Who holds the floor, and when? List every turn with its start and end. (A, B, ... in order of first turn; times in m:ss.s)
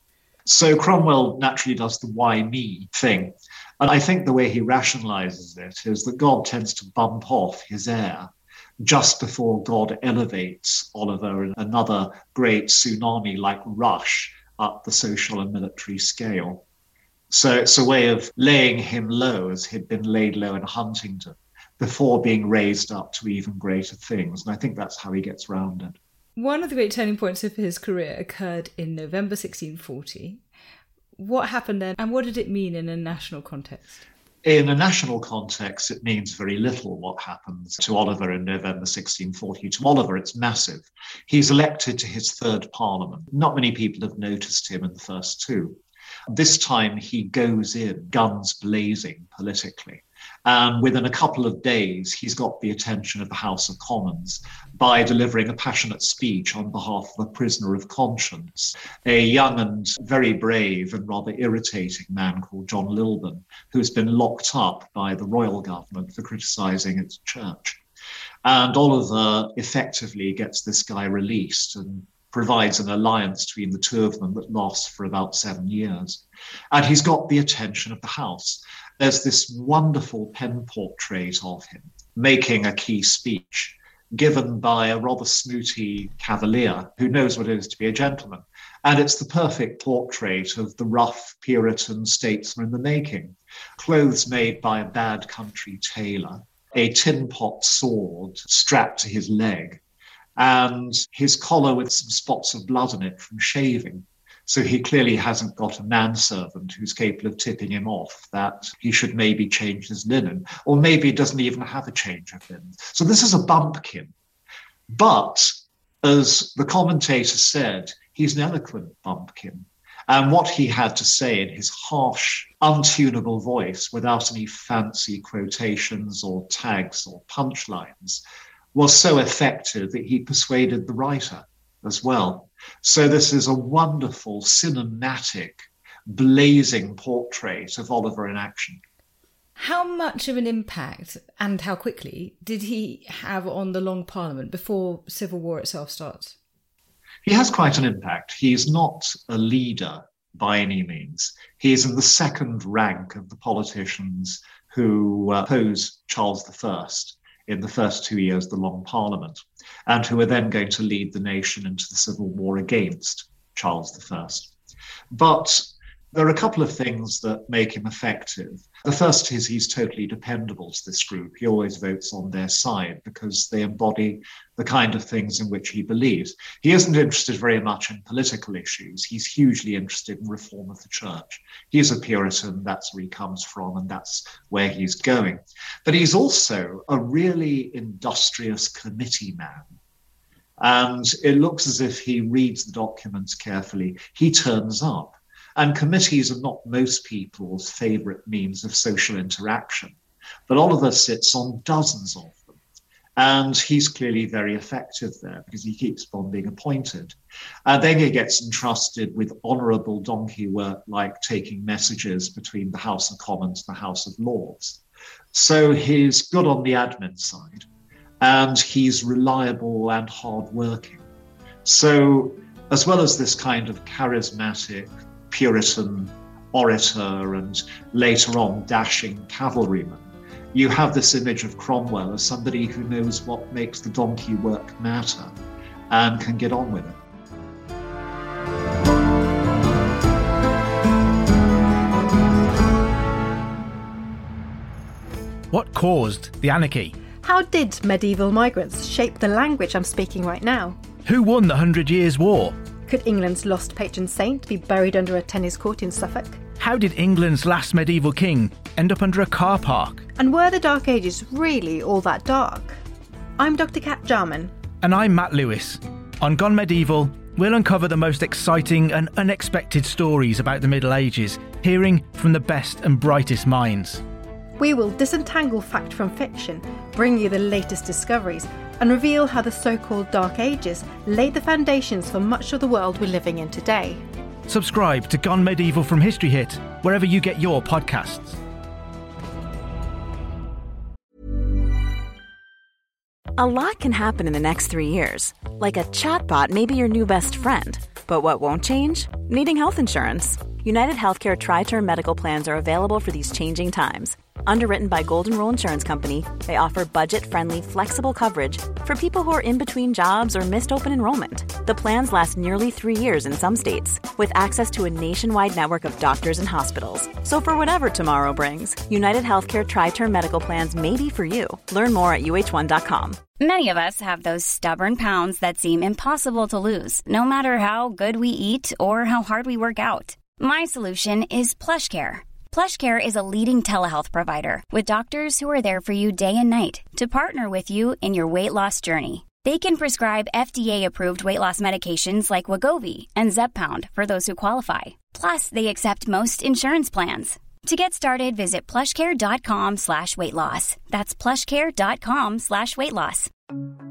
0:00.4-0:16.6 A
0:17.3-0:26.0 A
0:26.4-0:30.4 B
0:31.2-0:34.0 B
0:34.4-0:45.8 A
0:46.3-1:07.8 A
1:08.4-1:39.8 A
1:40.4-1:54.1 A
1:54.9-2:08.2 A
2:08.7-2:18.8 A
2:19.6-2:26.4 B
2:27.2-2:44.5 A
2:45.1-3:09.7 A
3:10.6-3:20.0 A
3:20.5-3:22.6 A
3:23.2-3:34.8 A
3:35.3-3:37.6 A
3:38.2-3:41.0 A
3:41.6-3:55.3 A
3:55.9-3:57.0 A
4:05.5-4:06.9 C
4:07.2-4:10.8 D
4:11.0-4:12.5 C
4:12.9-4:16.4 D
4:16.6-4:20.1 C
4:20.2-4:22.8 D
4:23.4-4:24.5 D
4:24.8-4:34.0 C
4:34.6-4:44.0 D
4:44.5-4:48.4 C
4:53.4-5:23.2 E
5:23.4-5:53.3 F